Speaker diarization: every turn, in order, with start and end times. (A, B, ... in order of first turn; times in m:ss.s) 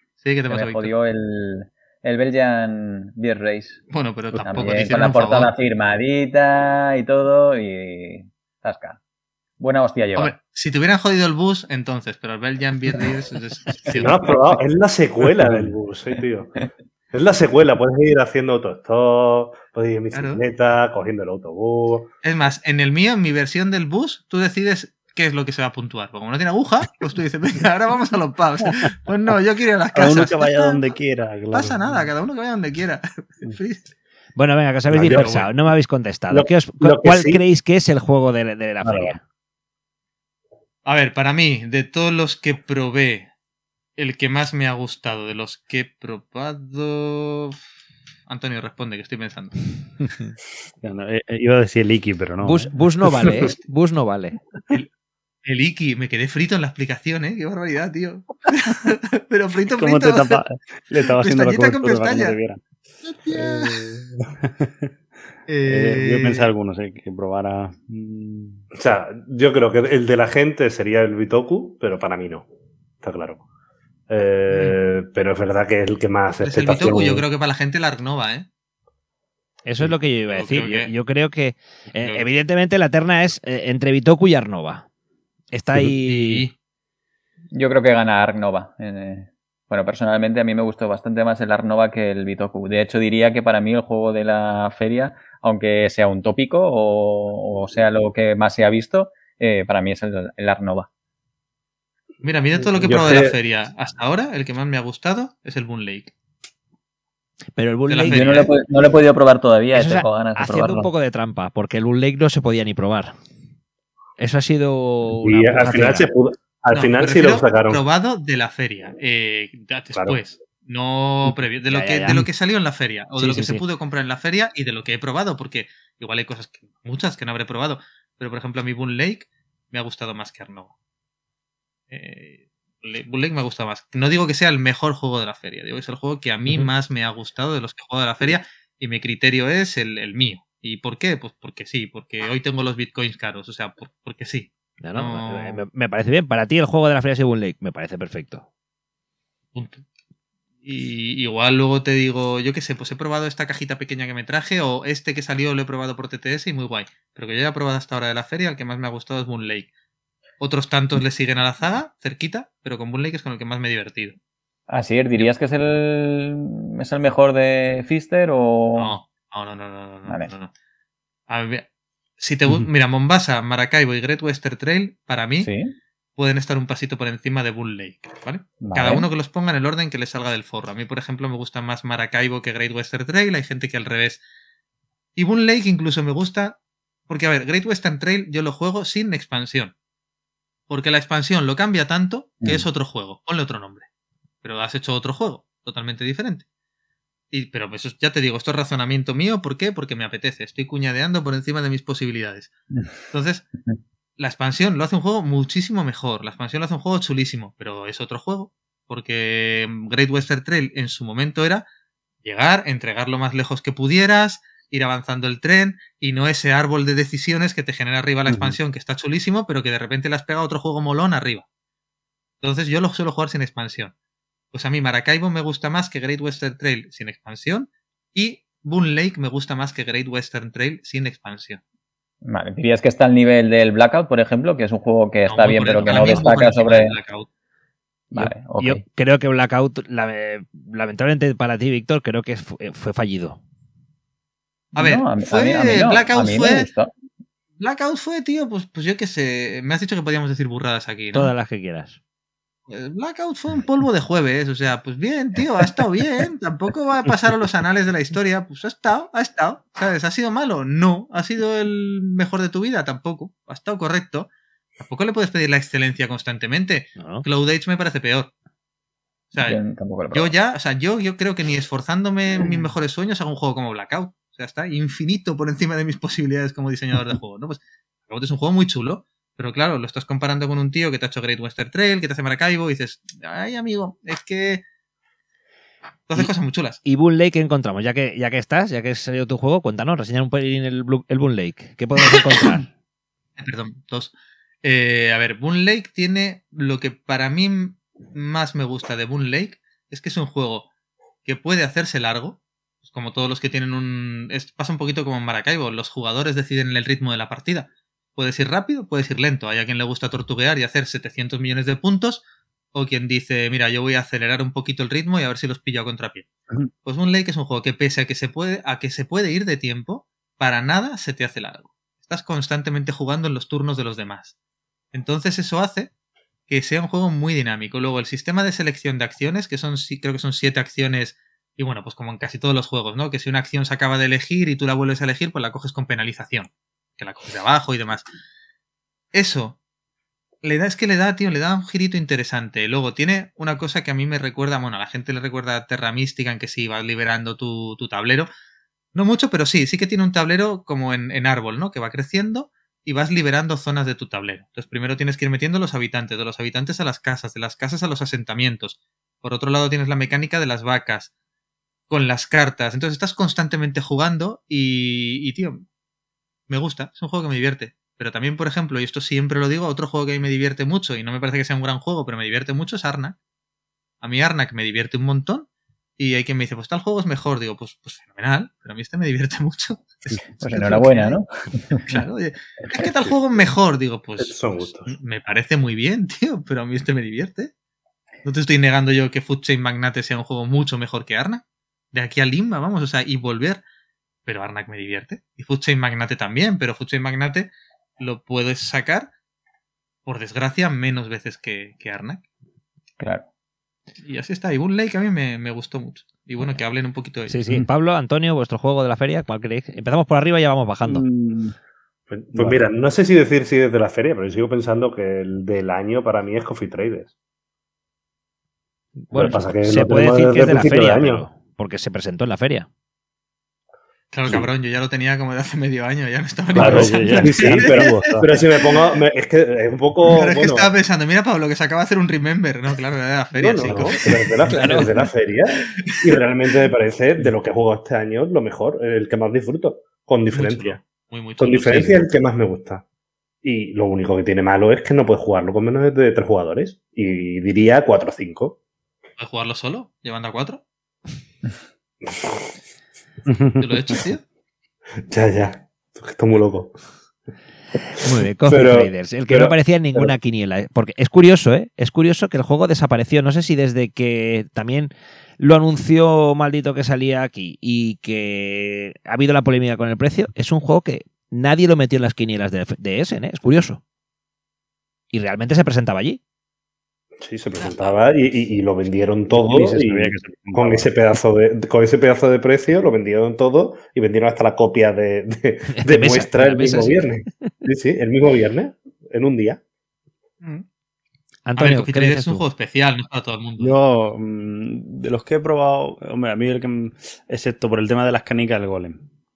0:00.2-0:00.9 A
0:00.5-0:03.8 B
0:03.9-0:05.5 A
0:04.4-0:09.0 B
0:04.5-0:04.8 C
0:09.6-0:10.4 B
0:10.2-0:14.2 A
0:14.0-0:16.5 D
0:17.1-0:22.1 D
0:20.1-0:20.4 A
0:22.2-0:30.8 A
0:29.9-0:32.0 C
0:31.5-0:33.9 A
0:34.4-0:39.2 E
0:34.9-0:35.3 D
0:35.2-0:35.5 A
0:36.3-0:37.4 D
0:40.9-0:43.3 A
0:44.0-0:47.6 A
0:48.3-0:49.8 A
0:50.8-0:52.7 C
0:52.4-0:54.4 E
0:55.4-1:00.4 A
0:59.8-1:02.6 C
1:01.1-1:02.4 A
1:03.0-1:03.9 A
1:03.3-1:04.9 C
1:05.5-1:06.5 A
1:05.7-1:08.7 C
1:08.8-1:12.5 D
1:13.0-1:13.4 D
1:14.1-1:17.2 D
1:14.5-1:14.8 A
1:16.4-1:18.5 A
1:19.6-1:24.9 E
1:20.3-1:20.9 A
1:22.0-1:22.3 A
1:25.5-1:26.5 E
1:26.1-1:26.5 A
1:27.5-1:40.9 B
1:42.2-1:46.1 A
1:42.6-1:43.4 D
1:47.6-1:48.5 E
1:47.9-1:48.5 A
1:48.1-1:50.9 B
1:49.7-1:53.1 E
1:54.2-1:56.1 E
1:55.2-1:57.8 D
1:56.7-2:10.7 A
1:59.9-2:00.2 D
2:01.7-2:02.2 E
2:03.2-2:03.6 E
2:11.9-2:25.6 A
2:24.8-2:28.5 E
2:29.6-2:29.8 A
2:30.6-2:39.7 A
2:40.4-2:44.2 A
2:44.7-2:49.0 B
2:48.8-2:50.5 A
2:51.3-2:51.7 A
2:52.2-2:55.5 A
2:55.4-2:55.7 B
2:56.2-3:04.2 A
2:58.6-2:59.1 B
3:05.2-3:06.6 A
3:07.1-3:09.7 A
3:10.7-3:13.9 A
3:14.4-3:16.4 A
3:17.3-3:22.5 A
3:23.1-3:23.5 A
3:24.2-3:31.6 A
3:32.2-3:41.4 A
3:42.4-3:43.9 A
3:44.5-3:51.6 A
3:52.2-3:57.0 B
3:55.3-3:57.3 A
3:55.9-3:56.3 E
3:58.1-3:58.8 B
3:58.2-4:03.4 E
4:04.7-4:06.9 B
4:04.8-4:06.7 A
4:07.6-4:11.3 A
4:11.1-4:12.0 E
4:12.7-4:24.3 A
4:24.8-4:28.3 A
4:27.0-4:27.2 E
4:29.3-4:29.6 A
4:29.4-4:30.3 B
4:30.1-4:44.6 A
4:46.1-4:46.8 A
4:46.8-4:52.7 E
4:52.0-4:52.6 A
4:53.4-4:54.1 A
4:54.6-5:00.7 A
5:01.2-5:12.2 A
5:12.7-5:16.3 A
5:16.8-5:24.4 A
5:24.9-5:25.9 A
5:26.5-5:38.0 A
5:39.1-5:39.6 A
5:40.4-5:48.3 A
5:49.0-6:01.1 A
6:01.9-6:05.6 A
6:06.5-6:13.2 A
6:14.0-6:15.4 A
6:16.0-6:21.2 A
6:20.4-6:21.8 B
6:21.9-6:27.5 A
6:24.2-6:25.0 D
6:28.2-6:33.6 A
6:34.3-6:37.5 A
6:38.0-6:39.1 A
6:40.1-6:42.2 A
6:43.0-6:43.2 B
6:44.0-6:47.6 A
6:47.3-6:51.0 E
6:50.9-6:51.5 C
6:52.1-6:57.1 D
6:52.4-6:52.6 C
6:59.1-7:02.7 E
6:59.1-7:01.2 D
7:04.1-7:08.0 A
7:06.6-7:08.3 C
7:06.6-7:10.7 D
7:10.1-7:14.3 A
7:13.4-7:20.8 D
7:14.5-7:14.9 E
7:15.9-7:16.2 A
7:20.3-7:22.1 A
7:21.4-7:22.8 D
7:23.4-7:28.6 D
7:29.2-7:30.6 A
7:33.3-7:34.0 C
7:33.6-7:34.2 A
7:35.1-7:36.8 D
7:38.0-7:53.8 E
7:38.4-7:40.1 D
7:55.1-7:56.2 E
7:57.2-8:09.6 D
7:57.6-7:57.9 E
7:59.3-8:00.9 C
8:05.8-8:07.0 E
8:11.5-8:12.4 E
8:11.6-8:13.8 A
8:13.6-8:19.0 C